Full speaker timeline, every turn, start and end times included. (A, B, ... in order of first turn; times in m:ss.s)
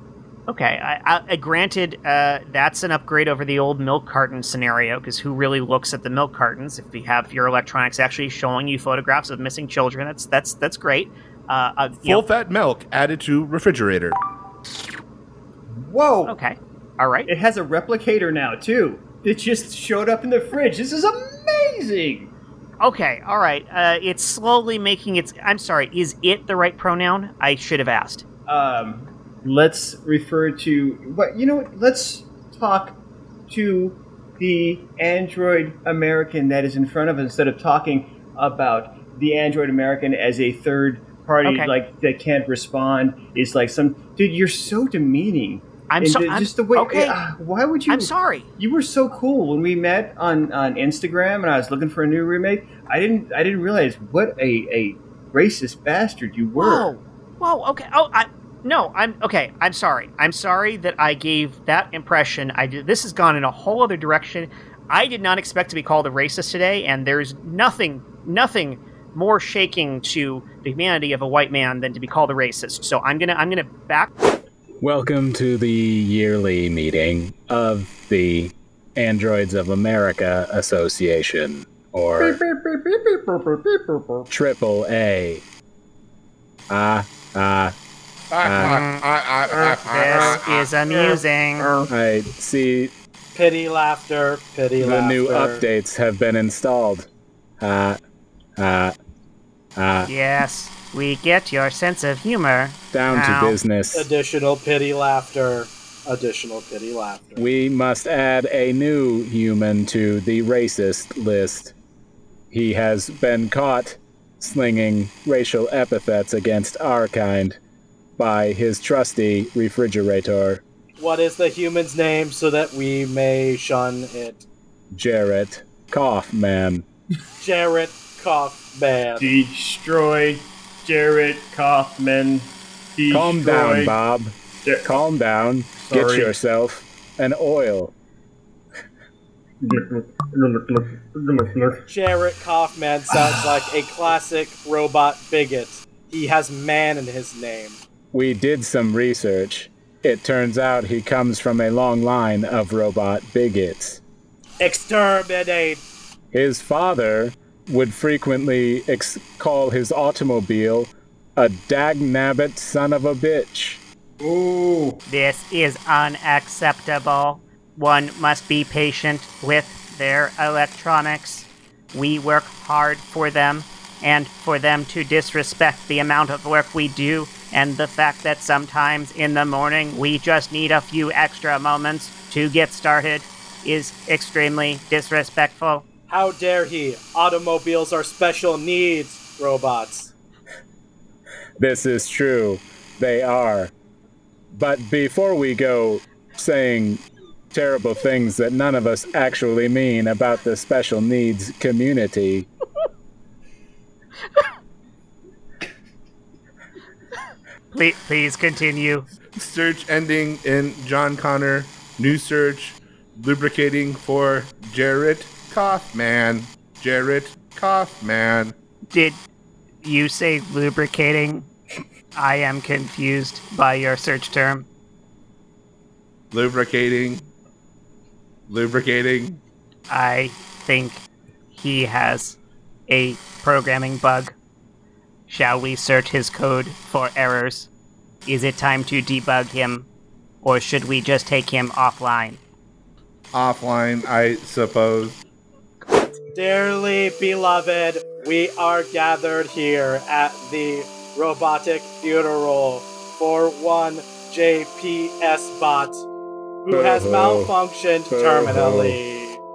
0:00.5-0:12.2 A
0:12.0-0:14.2 B
0:15.7-0:16.4 C
0:16.2-0:17.3 A
0:17.3-0:22.3 C
0:22.8-0:28.2 A
0:28.5-0:56.9 C
0:41.4-0:41.7 A
0:45.9-0:47.2 A
0:47.9-0:48.5 A
0:56.6-1:14.1 A
1:14.8-1:22.4 D
1:22.2-1:24.3 C
1:24.3-1:25.4 D
1:26.7-1:27.7 D
1:28.3-1:30.6 B
1:28.4-1:28.8 D
1:28.6-1:29.0 A
1:29.5-1:31.9 C
1:29.8-1:31.7 A
1:31.9-1:32.9 D
1:33.3-1:35.6 E
1:34.8-1:37.1 D
1:37.6-1:38.0 D
1:38.6-1:38.9 D
1:39.8-1:40.1 D
1:40.1-1:43.6 A
1:42.9-1:44.1 D
1:43.9-1:47.4 E
1:47.4-1:51.7 D
1:52.5-1:57.6 D
1:58.2-2:00.6 D
2:01.0-2:04.4 E
2:04.9-2:06.8 D
2:07.4-2:09.3 E
2:09.2-2:13.9 C
2:13.1-2:17.9 D
2:14.6-2:15.0 C
2:15.8-2:16.3 C
2:19.6-2:21.8 C
2:21.9-2:27.8 E
2:28.1-2:34.0 D
2:34.6-2:35.8 E
2:36.3-2:43.8 D
2:44.2-2:45.0 C
2:45.1-3:05.8 A
3:06.1-3:10.1 E
3:11.6-3:13.7 D
3:14.5-3:22.5 D
3:27.7-3:29.1 A
3:29.3-3:38.6 B
3:38.9-3:39.2 A
3:39.8-3:41.5 A
3:42.1-3:44.7 A
3:46.3-3:47.3 B
3:48.5-3:49.4 B
3:49.9-3:54.4 A
3:55.3-3:57.7 A
3:58.2-3:59.9 A
4:00.4-4:02.4 A
4:03.3-4:05.2 B
4:06.3-4:16.1 E
4:16.6-4:19.4 E
4:16.7-4:17.5 D
4:18.1-4:19.0 D